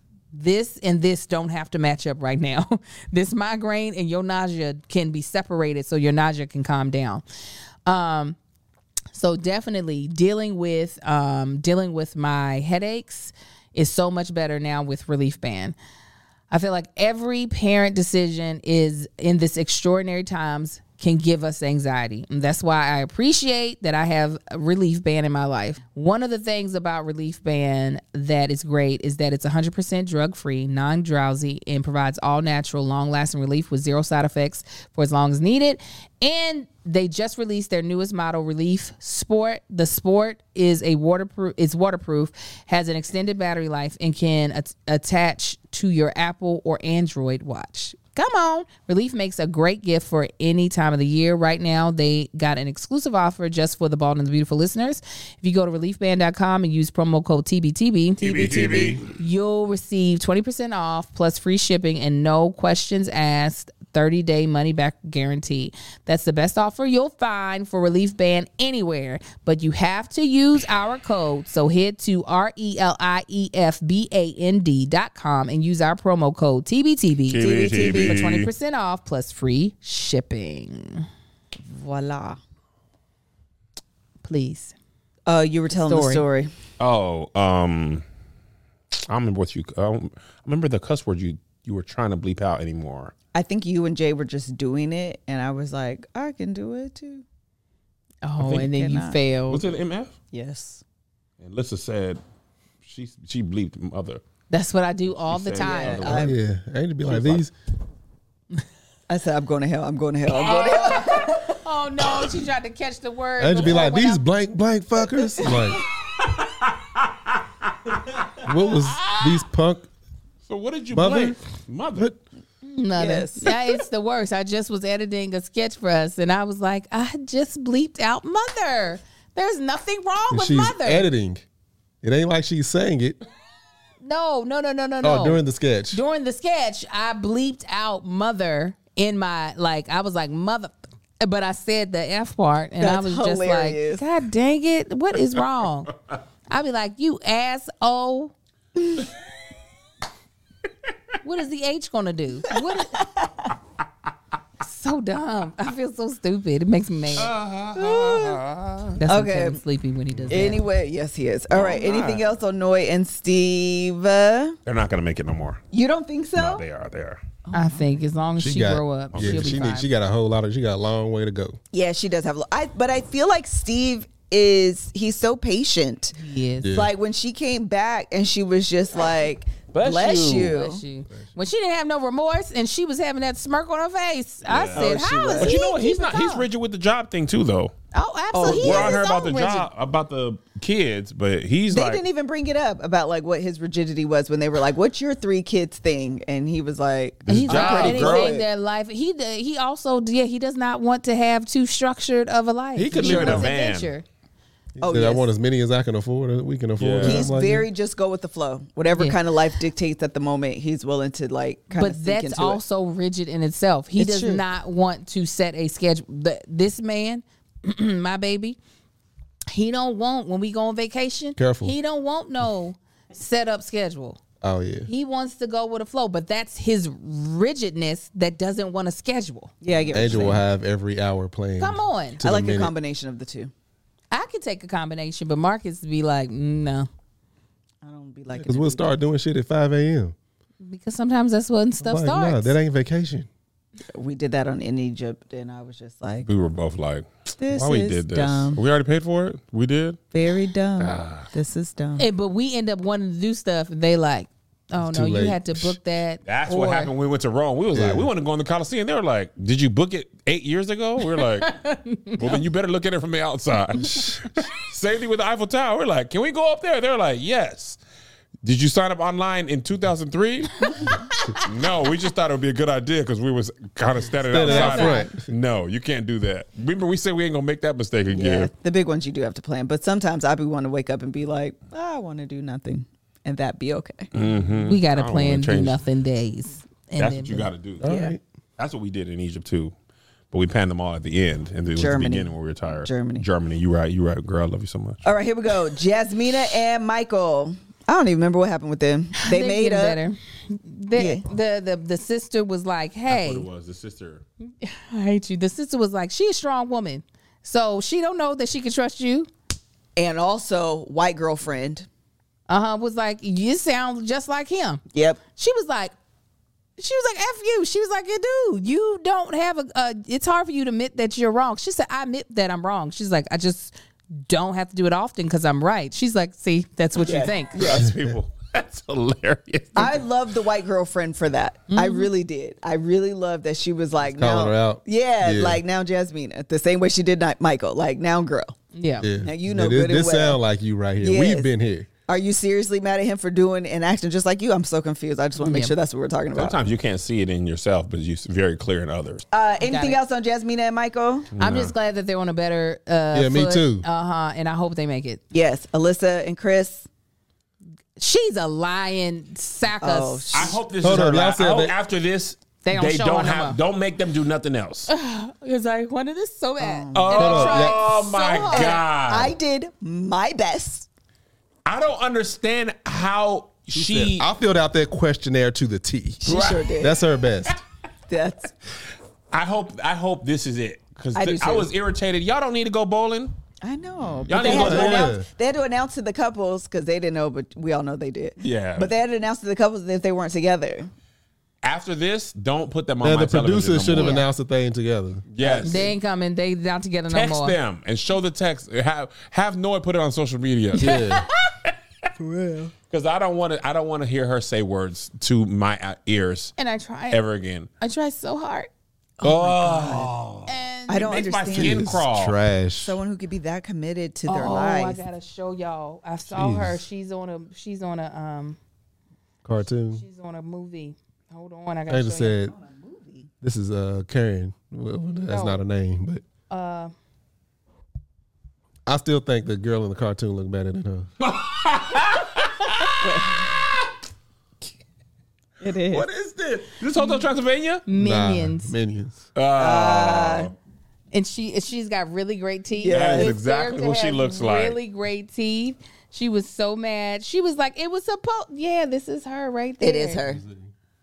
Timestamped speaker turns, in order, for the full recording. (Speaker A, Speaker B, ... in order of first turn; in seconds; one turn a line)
Speaker A: 0.3-7.2
Speaker A: 7.8-8.4
Speaker A: 9.1-15.7
Speaker A: 16.5-81.0
Speaker B: 58.2-59.1
Speaker C: 58.2-59.0
Speaker B: 77.3-78.5
Speaker C: 77.4-78.2
Speaker C: 81.6-82.4
Speaker A: 84.2-84.7
Speaker C: 85.2-86.5
Speaker A: 85.7-86.2
Speaker B: 86.8-88.0
Speaker B: 89.0-93.1
Speaker C: 93.3-97.2
Speaker A: 98.2-99.6
Speaker C: 98.4-99.2
Speaker B: 99.5-100.1
Speaker C: 100.3-100.8
Speaker B: 101.4-102.2
Speaker B: 102.8-104.2
Speaker A: 104.5-106.2
Speaker B: 105.2-106.4
Speaker C: 105.6-106.3
Speaker D: 106.1-107.5
Speaker B: 107.0-107.4
Speaker C: 109.1-111.5
Speaker A: 110.3-114.2
Speaker D: 113.4-115.8
Speaker B: 116.5-117.0
Speaker D: 118.4-119.9
Speaker B: 120.5-122.1
Speaker D: 120.9-121.4
Speaker A: 122.6-131.1
Speaker C: 123.0-123.8
Speaker D: 130.3-131.4
Speaker D: 132.0-133.2
Speaker A: 134.0-145.9
Speaker D: 135.0-136.0
Speaker C: 142.8-144.0
Speaker A: 146.5-148.3
Speaker A: 151.2-153.0
Speaker C: 152.5-153.5
Speaker A: 154.6-157.3
Speaker B: 157.2-159.0
Speaker C: 157.7-158.4
Speaker A: 158.9-160.6
Speaker C: 159.1-159.6
Speaker C: 160.3-164.6
Speaker B: 161.5-162.2
Speaker B: 164.7-165.6
Speaker C: 165.7-166.6
Speaker B: 166.3-167.2
Speaker C: 167.4-167.9
Speaker A: 167.5-169.9
Speaker D: 168.4-171.6
Speaker B: 169.1-169.6
Speaker C: 171.7-176.1
Speaker A: 176.2-176.7
Speaker D: 176.6-176.9
Speaker C: 176.7-180.8
Speaker B: 179.7-180.5
Speaker A: 180.3-186.4
Speaker B: 184.5-187.7
Speaker C: 184.7-185.5
Speaker A: 187.9-189.7
Speaker C: 188.3-189.0
Speaker B: 188.4-192.0
Speaker C: 191.7-198.5
Speaker D: 197.3-197.8
Speaker B: 197.3-198.3
Speaker A: 197.5-204.0
Speaker B: 202.8-203.9
Speaker C: 203.0-203.4
Speaker D: 203.0-203.5
Speaker D: 204.8-207.7
Speaker C: 204.8-205.2
Speaker B: 206.8-207.2
Speaker C: 207.0-212.6
Speaker A: 211.7-218.6
Speaker C: 214.0-214.4
Speaker A: 219.5-224.2
Speaker D: 221.4-221.7
Speaker D: 224.4-224.9
Speaker A: 224.8-229.5
Speaker C: 229.6-230.4
Speaker D: 229.9-232.7
Speaker A: 231.6-232.2
Speaker C: 232.2-233.5
Speaker A: 234.1-236.9
Speaker C: 237.8-238.9
Speaker D: 238.3-240.1
Speaker A: 240.6-242.6
Speaker D: 241.8-243.3
Speaker C: 243.9-246.3
Speaker B: 246.2-250.0
Speaker C: 247.4-248.6
Speaker C: 250.1-252.1
Speaker B: 250.8-251.3
Speaker A: 252.0-256.9
Speaker D: 254.8-255.8
Speaker B: 256.2-261.5
Speaker D: 257.7-258.1
Speaker A: 261.2-262.4
Speaker B: 262.1-267.8
Speaker B: 268.4-278.5
Speaker A: 270.7-271.4
Speaker D: 274.3-275.2
Speaker A: 274.4-275.1
Speaker C: 278.1-284.1
Speaker B: 284.1-285.8
Speaker A: 284.5-287.5
Speaker B: 287.0-287.9
Speaker D: 287.8-288.2
Speaker C: 287.8-288.1
Speaker B: 288.6-289.7
Speaker B: 290.3-295.1
Speaker C: 291.8-293.2
Speaker C: 295.0-300.0
Speaker A: 299.1-303.5
Speaker C: 300.9-301.2
Speaker B: 303.1-304.2
Speaker A: 304.6-309.3
Speaker C: 309.9-311.9
Speaker A: 312.5-314.8
Speaker C: 314.9-315.2
Speaker A: 315.4-315.9
Speaker A: 316.8-323.7
Speaker A: 324.3-327.6
Speaker C: 327.0-327.9
Speaker B: 327.5-330.1
Speaker D: 327.9-328.1
Speaker C: 329.8-338.5
Speaker A: 331.7-332.1
Speaker D: 334.0-335.6
Speaker A: 338.7-339.1
Speaker D: 339.0-341.9
Speaker C: 339.2-340.4
Speaker C: 341.0-341.5
Speaker C: 342.1-346.6
Speaker A: 345.4-345.7
Speaker B: 346.3-349.2
Speaker C: 349.3-351.3
Speaker A: 349.6-350.0
Speaker B: 351.3-351.7
Speaker A: 351.4-355.2
Speaker D: 353.1-353.8
Speaker C: 355.3-356.9
Speaker A: 358.0-360.3
Speaker C: 359.8-360.6
Speaker B: 360.3-364.9
Speaker D: 360.8-361.7
Speaker A: 362.6-363.6
Speaker A: 364.9-368.8
Speaker C: 366.6-367.7
Speaker B: 366.9-369.3
Speaker D: 367.1-367.7
Speaker C: 368.4-370.9
Speaker B: 371.6-374.3
Speaker D: 373.7-377.6
Speaker C: 376.2-376.9
Speaker B: 376.2-376.9
Speaker C: 378.1-378.5
Speaker B: 379.3-383.3
Speaker C: 381.1-381.7
Speaker C: 383.6-390.9
Speaker B: 384.3-385.1
Speaker D: 384.3-385.2
Speaker B: 388.4-388.9
Speaker B: 391.6-394.2
Speaker D: 393.0-395.2
Speaker A: 393.9-394.2
Speaker B: 395.3-395.9
Speaker C: 395.4-395.9
Speaker A: 395.6-397.6
Speaker B: 397.1-401.0
Speaker D: 400.7-401.3
Speaker A: 400.8-401.3
Speaker D: 402.2-402.7
Speaker B: 402.9-406.5
Speaker A: 406.6-407.2
Speaker B: 407.1-407.7
Speaker A: 407.8-408.7
Speaker C: 409.2-410.1
Speaker B: 409.2-412.4
Speaker A: 410.5-411.2
Speaker C: 410.9-412.0
Speaker D: 411.5-413.0
Speaker C: 412.8-415.0
Speaker A: 414.3-418.6
Speaker D: 416.3-416.8
Speaker D: 419.4-420.0
Speaker A: 419.9-422.4
Speaker D: 421.9-422.5
Speaker C: 422.3-423.3
Speaker D: 423.4-426.2
Speaker A: 425.3-425.6
Speaker A: 426.5-426.9
Speaker D: 428.9-431.1
Speaker B: 431.2-432.9
Speaker C: 433.0-433.5
Speaker C: 435.6-436.1
Speaker B: 435.9-437.8
Speaker A: 437.9-438.7
Speaker D: 437.9-439.2
Speaker B: 439.3-440.5
Speaker C: 439.6-440.5
Speaker A: 441.1-450.2
Speaker C: 442.8-443.3
Speaker B: 442.9-444.8
Speaker C: 449.8-450.4
Speaker D: 450.3-450.7